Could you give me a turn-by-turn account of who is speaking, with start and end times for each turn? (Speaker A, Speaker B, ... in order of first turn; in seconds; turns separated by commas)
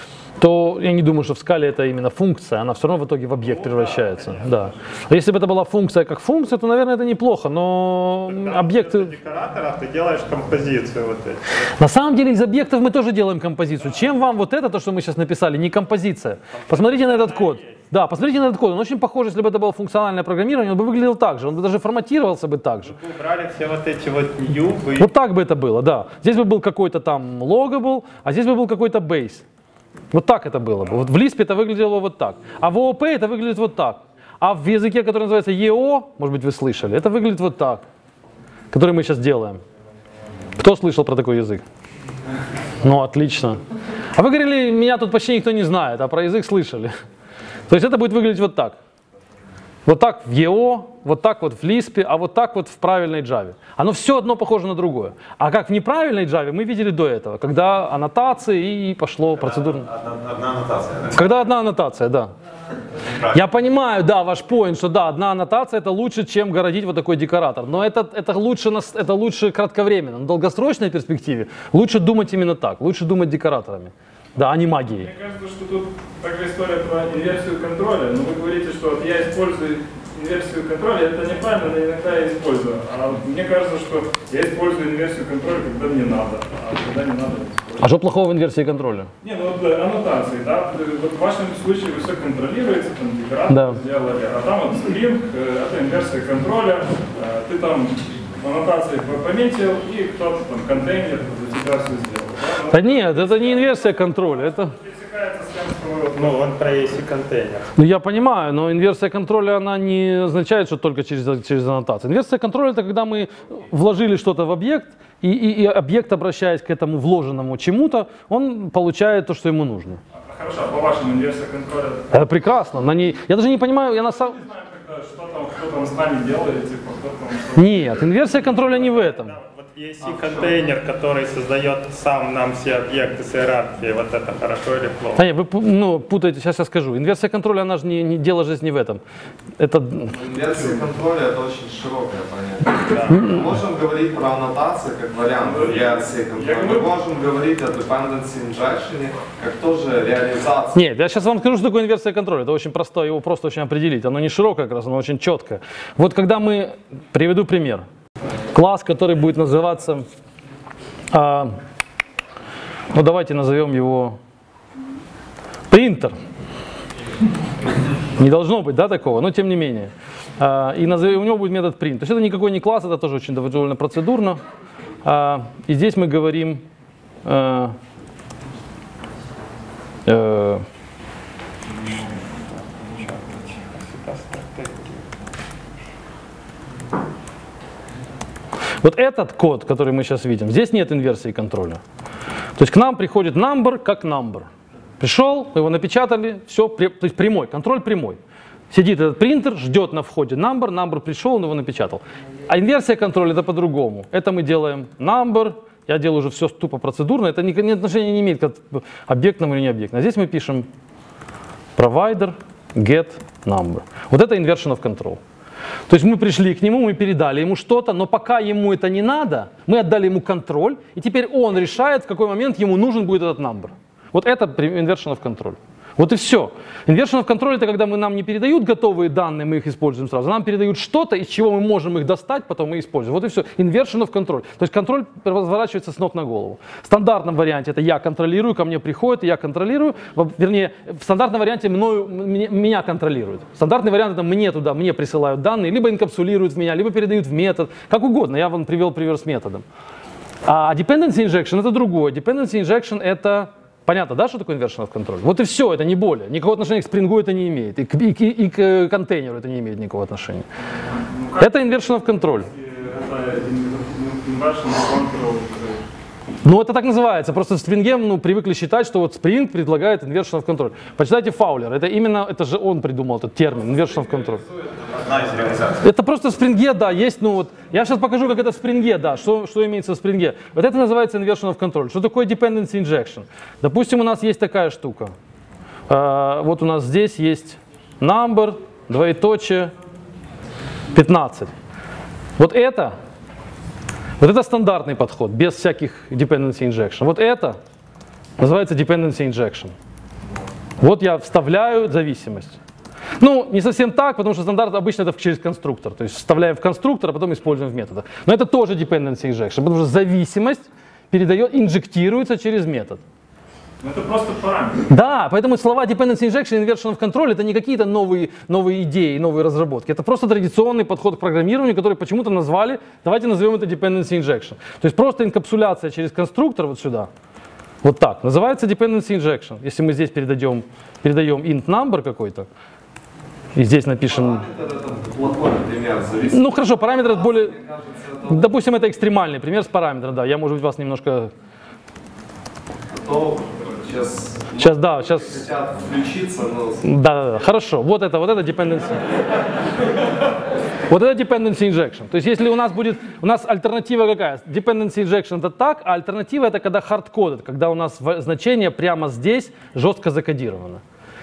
Speaker A: 0.4-9.1, Speaker B: 8.3-11.6, Speaker A: 11.8-22.9, Speaker B: 16.7-17.7, Speaker B: 22.9-25.1, Speaker A: 25.0-29.4, Speaker A: 30.1-37.8, Speaker A: 38.7-39.6, Speaker A: 40.6-41.6, Speaker A: 42.8-43.6, Speaker A: 44.1-46.9, Speaker A: 47.7-48.8, Speaker A: 49.9-59.9, Speaker C: 59.4-61.2, Speaker A: 61.1-62.3, Speaker A: 63.3-75.1, Speaker D: 75.0-87.9, Speaker A: 87.8-89.1, Speaker D: 89.2-103.9, Speaker A: 93.5-93.8, Speaker A: 102.7-104.7, Speaker D: 104.6-106.5, Speaker B: 106.1-107.7, Speaker A: 107.8-120.0, Speaker D: 120.2-122.2, Speaker A: 122.1-124.4, Speaker D: 124.3-128.1, Speaker A: 127.5-129.3, Speaker B: 128.6-135.2, Speaker A: 135.2-139.0, Speaker A: 139.6-140.1, Speaker E: 140.1-150.8, Speaker B: 142.9-143.3, Speaker D: 145.4-146.8, Speaker A: 150.7-157.8, Speaker A: 158.5-160.1, Speaker A: 161.1-161.5, Speaker A: 162.9-164.2, Speaker A: 165.7-166.2, Speaker A: 168.2-174.4, Speaker A: 175.0-176.6, Speaker A: 177.2-177.7, Speaker A: 180.1-180.6, Speaker B: 182.8-185.0, Speaker A: 188.8-191.8, Speaker A: 192.6-194.5, Speaker A: 195.0-198.2, Speaker A: 198.7-210.7, Speaker A: 211.8-215.2, Speaker A: 215.9-249.6, Speaker A: 250.4-260.4, Speaker D: 261.1-261.6, Speaker A: 261.4-262.5, Speaker D: 262.5-265.9, Speaker A: 266.4-274.4, Speaker C: 274.9-275.8, Speaker A: 275.8-285.1, Speaker A: 285.9-289.7, Speaker A: 290.9-291.5, Speaker A: 292.4-292.9, Speaker A: 294.2-297.6, Speaker A: 298.4-299.7, Speaker A: 300.8-302.6, Speaker A: 303.2-313.0, Speaker D: 313.8-314.9, Speaker A: 314.9-327.1, Speaker A: 327.8-332.5, Speaker A: 333.6-334.4, Speaker E: 334.0-338.5, Speaker A: 336.3-337.5, Speaker A: 338.3-341.3, Speaker E: 342.9-346.9, Speaker A: 344.6-345.4, Speaker A: 346.8-349.0, Speaker A: 350.9-360.8